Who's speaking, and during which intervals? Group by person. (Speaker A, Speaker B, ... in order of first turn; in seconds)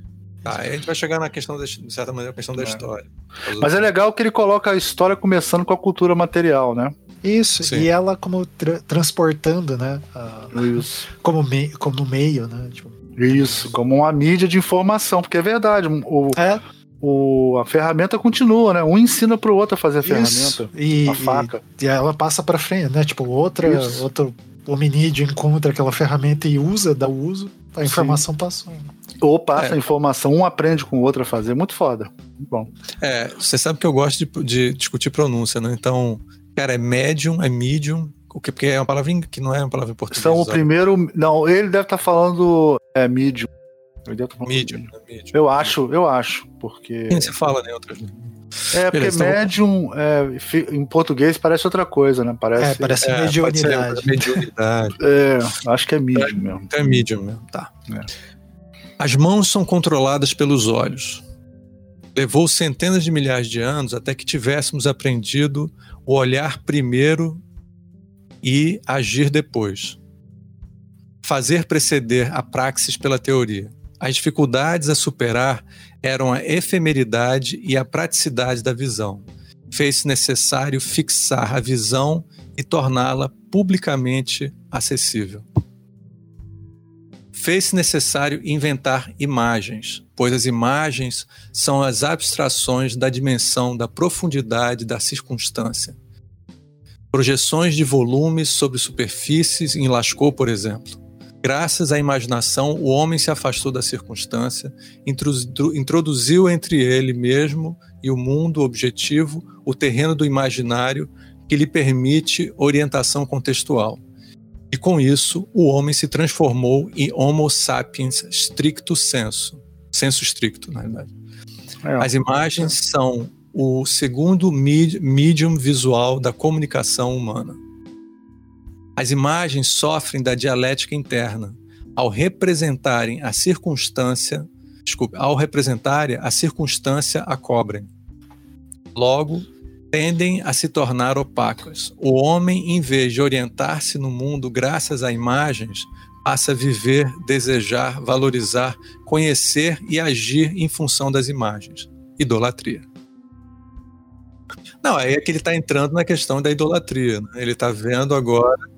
Speaker A: 0.5-3.9, 7.6-7.9, 33.0-40.7, 44.5-45.4, 47.1-49.5, 53.0-55.0, 56.1-57.7, 59.0-61.2, 62.1-67.4, 68.4-70.0, 71.2-85.5, 87.3-96.0, 97.1-114.0, 114.7-121.1, 122.0-127.6, 129.0-137.9, 138.9-152.9, 154.8-158.6
Speaker B: 3.6-7.0, 10.5-11.1, 13.2-16.4, 17.0-21.6, 23.6-24.1, 27.9-28.2, 29.2-32.7, 40.1-43.5, 44.1-47.3, 48.7-53.0, 55.0-56.7, 121.8-122.7
Speaker C: 7.2-10.7, 11.2-13.0, 16.4-16.6, 20.0-28.9, 52.6-54.4